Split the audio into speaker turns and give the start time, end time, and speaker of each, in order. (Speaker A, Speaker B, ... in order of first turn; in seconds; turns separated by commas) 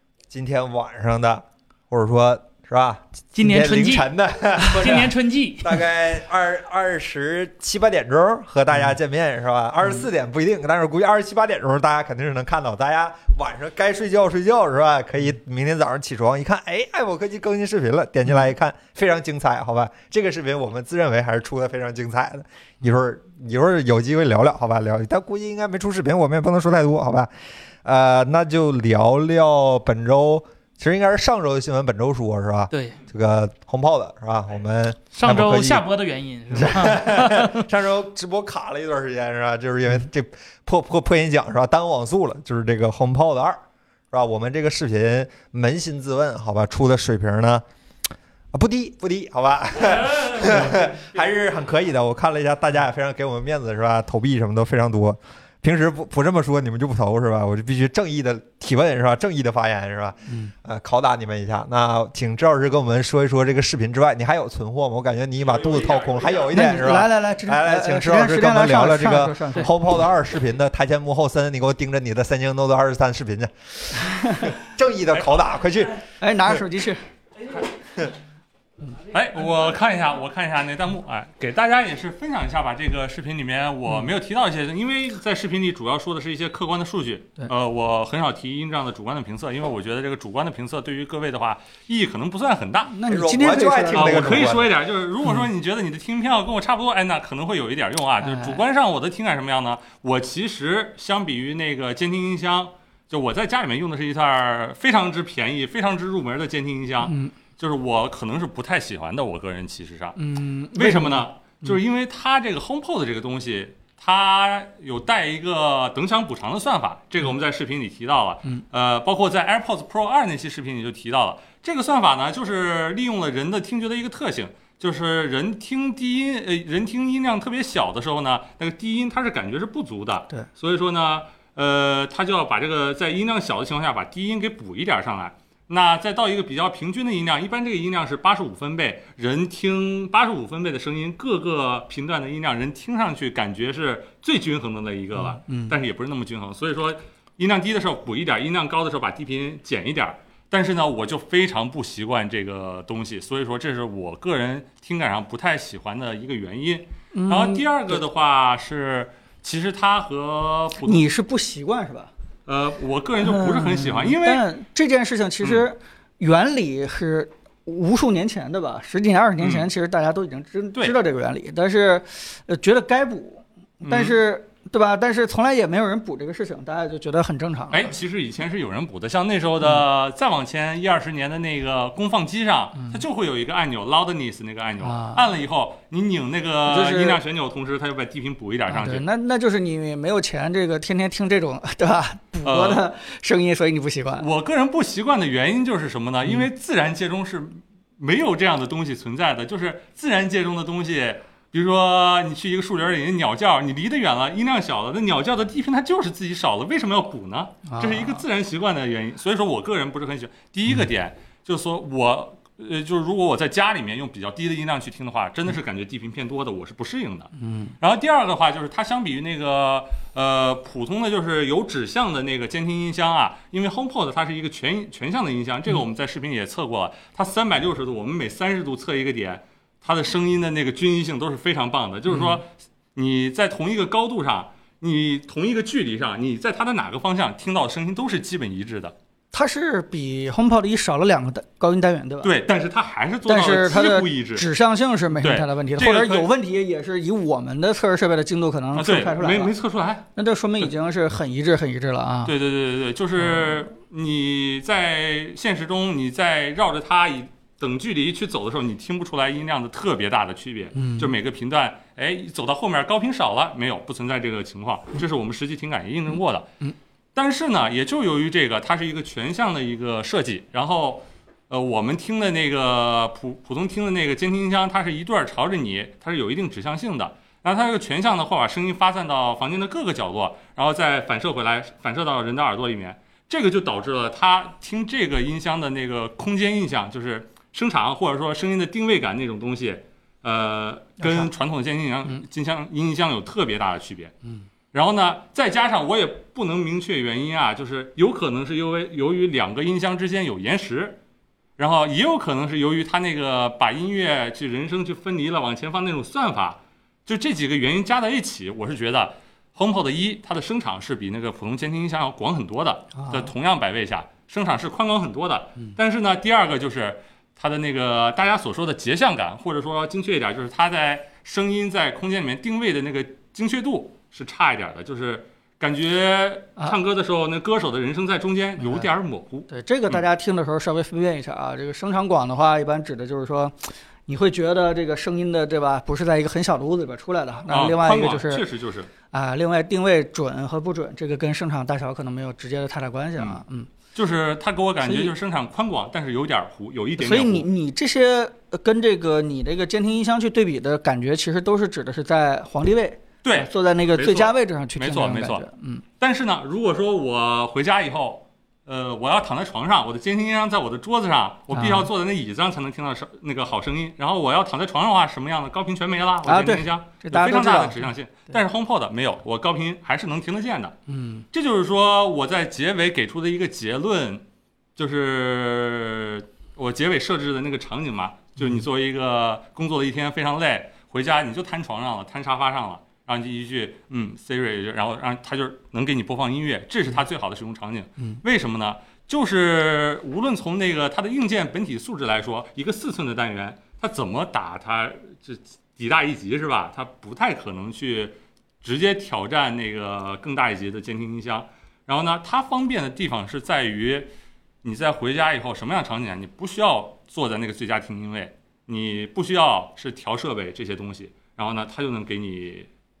Speaker A: 0.3-27.3, Speaker B: 3.3-5.8, Speaker A: 27.8-35.9, Speaker B: 32.7-33.0, Speaker B: 35.1-37.6, Speaker A: 36.5-43.6, Speaker A: 44.1-47.6, Speaker A: 48.5-76.0, Speaker C: 50.2-50.7, Speaker C: 65.5-66.6, Speaker D: 66.5-69.7, Speaker C: 75.1-75.5, Speaker D: 76.2-77.0, Speaker C: 79.1-92.9, Speaker D: 92.9-94.5, Speaker A: 93.1-94.6, Speaker C: 93.9-110.2, Speaker D: 98.2-98.6, Speaker D: 107.0-107.3, Speaker D: 110.2-111.7, Speaker C: 110.7-161.1, Speaker D: 145.2-145.8, Speaker D: 157.1-158.0, Speaker D: 160.8-162.1, Speaker C: 162.4-164.4, Speaker D: 163.2-177.9, Speaker C: 169.4-169.7, Speaker C: 173.8-174.1, Speaker C: 177.7-189.0, Speaker D: 184.8-185.2, Speaker D: 186.7-187.2, Speaker D: 188.7-194.3, Speaker C: 192.4-192.8, Speaker C: 194.2-238.9, Speaker D: 207.7-208.2, Speaker D: 217.4-217.7, Speaker D: 232.1-232.4, Speaker D: 239.3-242.3, Speaker C: 242.2-244.4, Speaker D: 243.2-249.5, Speaker C: 245.2-246.3, Speaker C: 248.7-250.1, Speaker D: 250.1-252.3, Speaker C: 252.2-266.5, Speaker D: 260.7-261.1, Speaker C: 267.1-294.1, Speaker D: 291.0-291.3, Speaker C: 294.7-301.0, Speaker C: 301.6-330.0, Speaker D: 312.9-313.3, Speaker D: 328.6-328.9, Speaker D: 329.5-333.5, Speaker D: 334.1-338.4, Speaker C: 337.5-338.9, Speaker D: 339.1-343.7, Speaker C: 343.9-347.5, Speaker D: 344.8-345.1, Speaker D: 347.0-355.8, Speaker C: 353.2-355.5, Speaker C: 356.0-370.8, Speaker D: 361.5-361.9, Speaker D: 366.2-367.8, Speaker D: 370.9-371.2, Speaker C: 371.3-374.2, Speaker C: 374.8-404.1, Speaker C: 404.6-412.7